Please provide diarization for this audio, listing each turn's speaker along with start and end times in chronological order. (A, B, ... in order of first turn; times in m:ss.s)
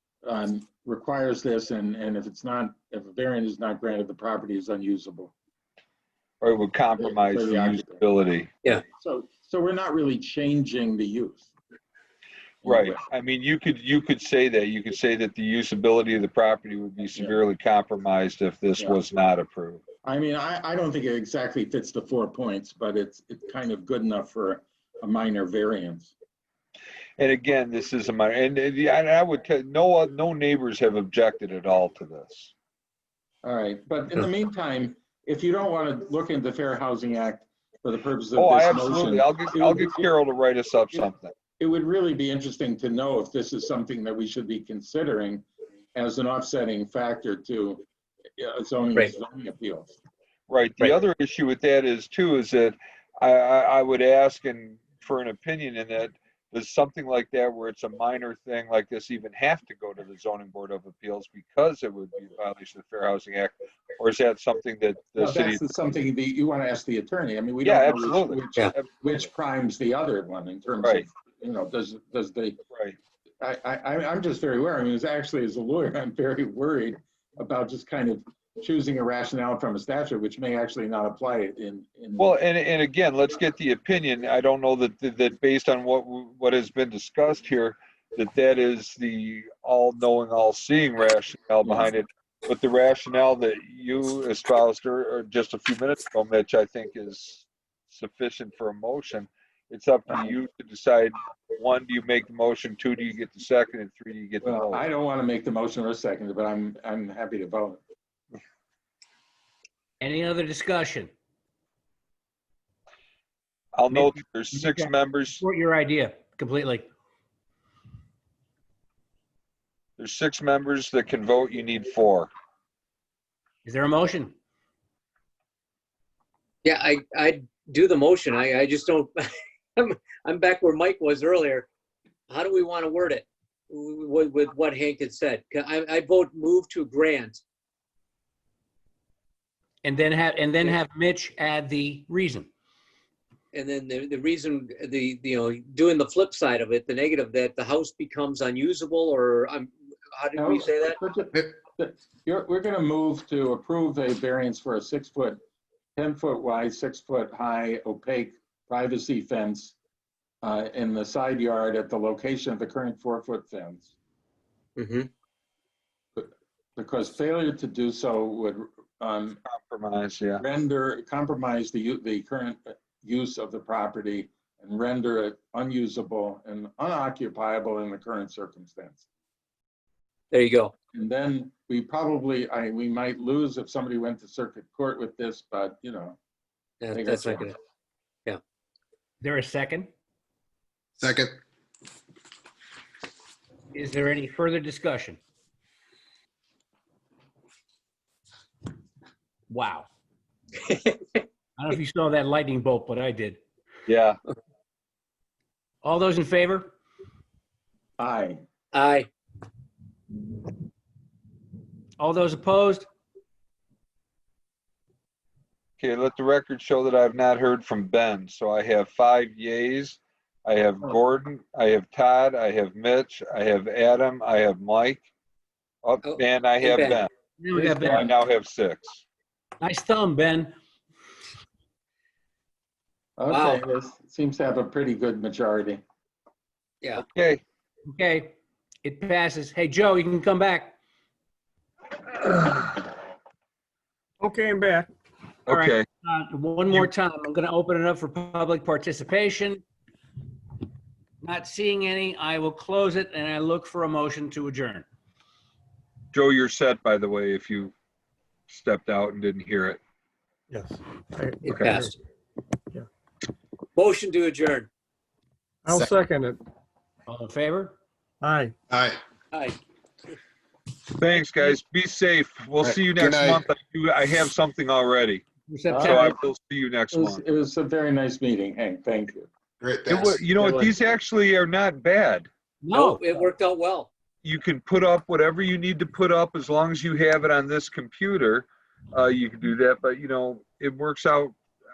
0:00.2-0:05.3 A
0:06.4-0:08.5 B
0:07.0-0:08.0 A
0:08.8-0:11.5 A
0:12.6-0:13.0 A
0:12.6-0:19.8 B
0:20.0-0:26.1 A
0:27.2-0:32.5 B
0:33.4-0:40.1 A
0:38.4-0:41.3 B
0:41.6-0:47.8 A
0:48.4-0:50.0 A
0:50.5-1:05.6 B
1:05.2-1:12.6 A
1:07.6-1:09.2 B
1:13.4-1:22.3 A
1:22.2-1:44.8 B
1:44.4-1:47.8 A
1:50.0-1:51.1 C
1:53.7-1:55.4 B
1:53.9-1:56.9 C
2:00.0-2:02.3 B
2:03.6-2:04.3 C
2:06.6-2:11.7 D
2:12.3-2:17.4 D
2:19.8-2:22.5 C
2:23.5-2:31.0 D
2:30.4-2:35.4 A
2:36.0-2:39.7 A
2:40.4-2:43.9 A
2:44.8-2:45.1 D
2:46.2-2:49.4 A
2:49.5-2:50.4 B
2:50.4-2:59.0 A
3:00.3-3:00.7 D
3:00.9-3:06.2 A
3:06.8-3:07.5 D
3:06.9-3:07.5 A
3:09.2-3:09.9 C
3:11.0-3:11.4 E
3:13.7-3:15.2 C
3:19.5-3:19.9 C
3:20.6-3:21.2 D
3:21.6-3:23.4 C
3:23.9-3:24.2 B
3:25.8-3:26.7 C
3:28.0-3:28.4 A
3:28.7-3:29.1 D
3:32.0-3:32.9 C
3:35.8-3:45.1 B
3:45.8-3:47.1 B
3:46.0-3:47.0 D
3:47.4-3:48.1 C
3:47.6-3:48.1 A
3:47.6-3:49.0 B
3:49.6-3:50.5 C
3:53.2-3:55.8 A
3:53.3-3:53.6 D
3:57.1-3:57.4 B
3:57.9-4:00.7 C
4:04.2-4:04.9 F
4:05.5-4:05.8 B
4:05.5-4:09.6 C
4:11.2-4:14.8 C
4:16.1-4:17.7 B
4:18.5-4:19.8 B
4:20.5-4:21.9 F
4:21.4-4:21.9 D
4:21.5-4:21.8 B
4:23.8-4:24.7 D
4:25.6-4:26.4 F
4:27.1-4:27.8 C
4:28.2-4:28.5 F
4:28.7-4:29.0 E
4:29.3-4:29.6 D
4:31.0-4:35.2 B
4:32.6-4:33.4 E
4:35.5-4:36.1 C
4:35.7-4:36.1 A
4:35.8-4:37.2 B
4:36.9-4:39.3 A
4:39.6-4:40.6 E
4:39.9-4:42.3 B
4:42.6-4:43.0 C
4:42.7-4:43.9 D
4:44.2-4:51.3 B